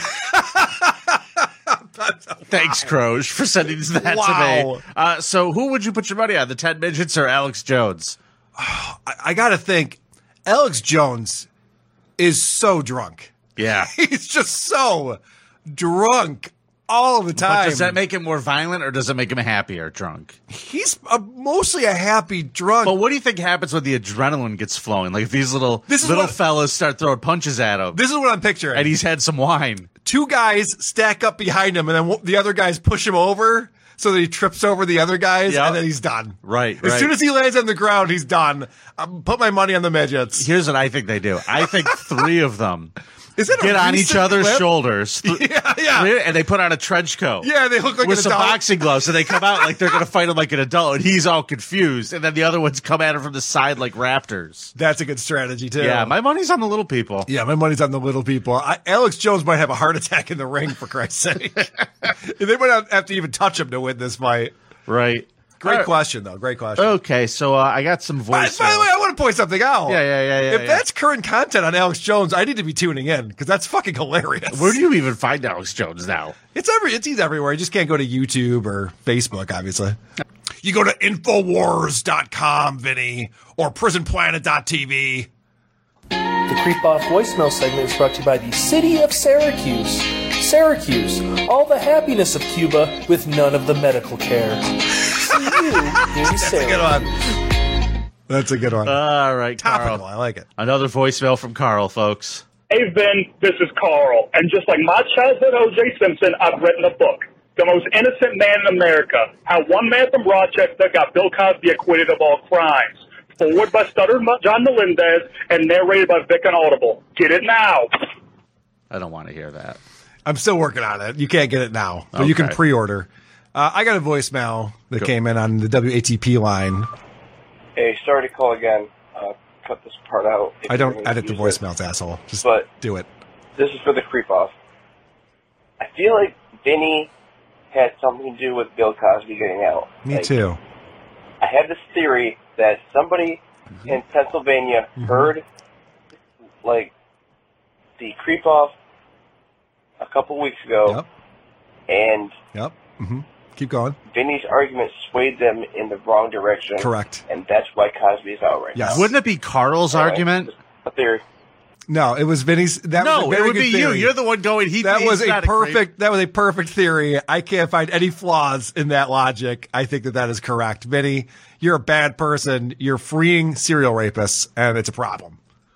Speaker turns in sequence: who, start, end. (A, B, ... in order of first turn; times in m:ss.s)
0:00.3-0:02.9 A
0:02.5-0:08.2 B
0:04.0-0:04.8 A
0:08.6-0:11.5 A
0:12.2-0:13.3 A
0:13.6-0:13.9 B
0:13.9-0:18.0 A
0:17.4-0:20.4 B
0:20.5-0:23.0 A
0:22.8-0:28.0 B
0:25.9-0:26.4 A
0:27.9-0:28.9 A
0:28.7-0:29.9 B
0:30.0-0:40.5 A
0:35.5-0:35.8 B
0:36.4-0:37.1 B
0:40.4-0:42.9 B
0:43.4-0:44.7 A
0:43.6-0:47.5 B
0:45.2-0:46.1 A
0:47.4-0:48.6 A
0:48.0-0:54.7 B
0:49.3-0:49.8 A
0:54.8-0:56.1 A
0:55.8-0:57.3 B
0:57.3-1:04.5 A
1:04.9-1:05.9 B
1:05.6-1:07.0 A
1:06.8-1:08.9 B
1:08.3-1:14.8 A
1:09.9-1:10.8 B
1:14.5-1:16.4 B
1:16.5-1:20.0 A
1:20.6-1:25.3 A
1:26.5-1:37.1 C
1:36.2-1:37.1 A
1:38.3-1:39.0 A
1:38.8-1:40.0 B
1:39.6-1:40.5 A
1:40.6-1:42.4 B
1:42.7-1:57.9 D
1:58.9-1:59.8 B
2:00.2-2:06.9 A
2:02.1-2:02.6 B
2:07.8-2:11.6 E
2:10.7-2:13.1 A
2:12.4-2:12.7 E
2:13.6-2:14.5 E
2:15.8-2:17.1 E
2:17.7-2:20.3 E
2:20.0-2:20.6 A
2:21.4-2:25.4 E
2:25.0-2:25.3 A
2:26.6-2:26.9 E
2:28.0-2:28.7 E
2:30.0-2:31.0 E
2:31.9-2:32.4 E
2:32.5-2:34.0 A
2:34.1-2:39.1 E
2:36.8-2:37.2 A
2:38.8-2:39.1 A
2:38.9-2:40.5 B
2:39.9-2:41.2 E
2:41.9-2:44.1 A
2:43.0-2:45.9 B
2:44.8-2:55.4 A